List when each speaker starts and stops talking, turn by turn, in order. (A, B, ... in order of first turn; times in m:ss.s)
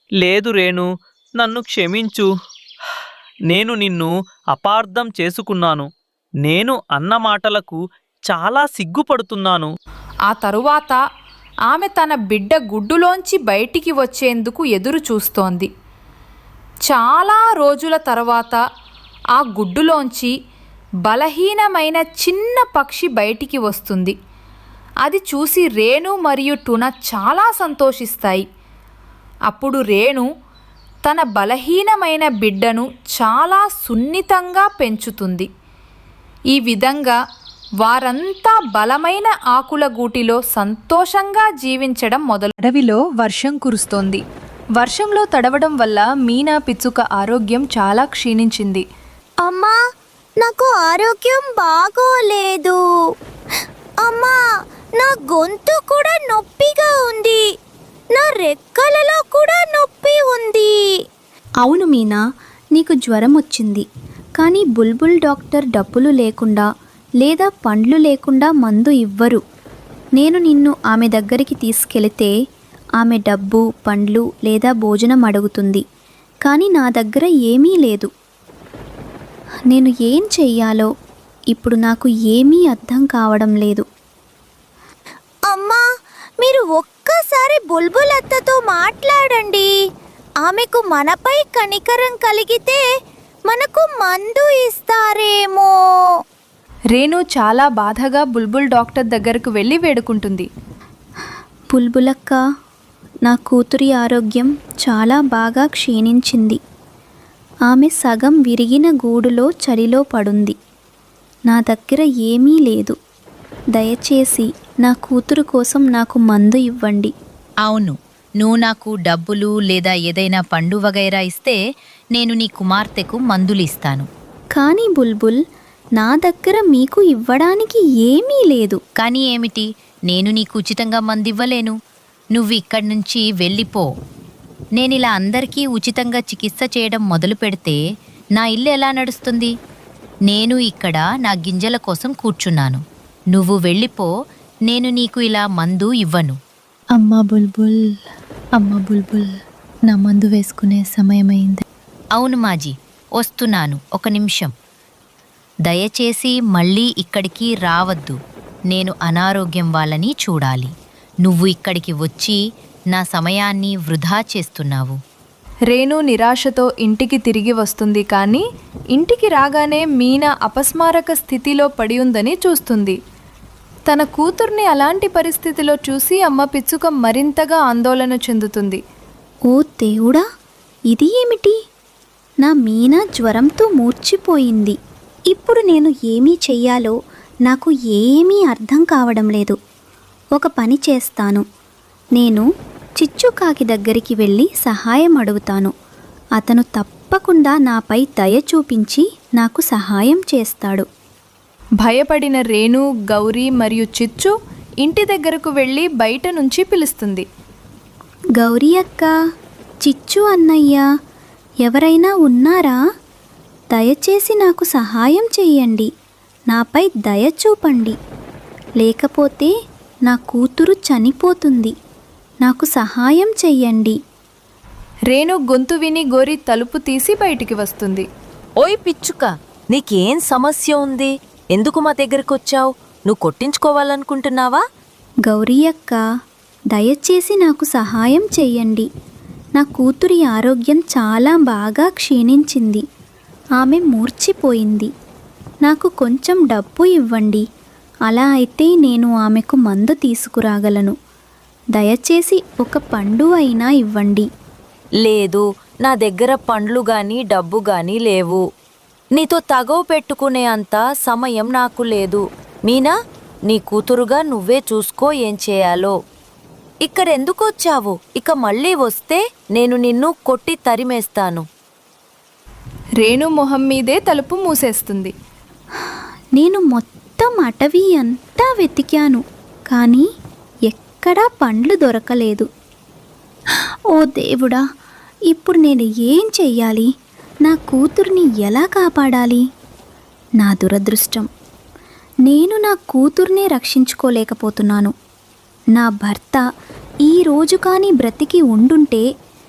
0:00.2-0:02.3 A
0:03.5-0:05.9 A
0:06.4-0:07.8 A
0:08.3-0:09.7 A
0:10.3-0:11.0 B
0:11.7-0:15.7 B
0:16.9-0:18.6 B
0:19.3-0:20.3 B
0:21.0-0:24.1 B
0:25.0-0:28.4 B
0:29.5-0:30.3 B
0:31.0-0:35.5 B
0:36.5-0:37.2 B
0:37.8-0:44.2 B
0:44.8-0:48.8 B
0:49.4-0:49.8 C
0:50.4-0:52.8 C
0:54.0-0:54.4 C
0:55.0-0:57.4 C
0:58.1-1:00.7 C
1:01.6-1:02.2 D
1:02.7-1:03.8 D
1:04.4-1:06.6 D
1:07.2-1:09.4 D
1:10.2-1:12.3 D
1:13.0-1:15.8 D
1:16.4-1:18.1 D
1:19.7-1:20.9 D
1:21.5-1:23.8 D
1:25.5-1:25.8 C
1:26.4-1:29.7 C
1:30.4-1:32.8 C
1:33.5-1:35.7 C
1:36.9-1:40.5 B
1:41.7-1:42.4 D
1:43.2-1:46.6 D
1:47.7-1:50.5 D
1:51.5-1:52.9 D
1:53.7-1:57.1 D
1:57.6-2:01.6 E
2:02.1-2:04.1 E
2:04.5-2:05.4 D
2:06.0-2:08.8 D
2:09.0-2:11.7 E
2:12.3-2:13.9 E
2:14.8-2:17.8 E
2:18.4-2:19.5 E
2:20.3-2:24.1 E
2:24.7-2:26.4 E
2:27.0-2:27.8 F
2:28.6-2:29.3 F
2:29.9-2:31.6 F
2:32.1-2:34.5 E
2:35.6-2:38.2 E
2:38.7-2:40.7 E
2:41.2-2:42.4 E
2:42.9-2:45.0 E
2:45.7-2:53.0 B
2:53.9-2:58.8 B
2:59.5-3:00.2 D
3:00.9-3:01.6 D
3:02.4-3:04.8 D
3:05.3-3:06.9 D
3:07.5-3:09.6 D
3:10.4-3:11.4 D
3:12.2-3:12.4 D
3:13.0-3:15.7 D
3:16.4-3:20.8 D
3:21.8-3:24.3 B
3:24.8-3:27.2 B
3:28.4-3:29.1 D
3:29.8-3:30.8 D
3:31.6-3:32.8 D
3:33.7-3:35.9 D
3:36.5-3:37.9 D
3:38.8-3:39.5 D
3:40.1-3:41.7 D
3:42.4-3:44.0 D
3:45.1-3:48.0 B
3:48.6-3:54.6 G
3:55.3-3:56.0 D
3:56.7-3:58.8 D
3:59.6-4:02.8 D
4:03.6-4:04.9 D
4:05.6-4:07.4 D
4:08.1-4:10.9 D
4:11.7-4:14.3 D
4:15.0-4:18.4 G
4:19.1-4:22.9 G
4:23.5-4:25.9 G
4:26.8-4:31.4 G
4:33.0-4:35.1 B
4:36.4-4:40.0 D
4:40.7-4:42.4 D
4:43.9-4:44.6 D
4:45.3-4:46.9 D
4:47.4-4:49.4 D
4:50.4-4:51.3 D
4:52.2-4:54.9 D
4:55.8-4:56.4 D
4:57.0-4:59.0 D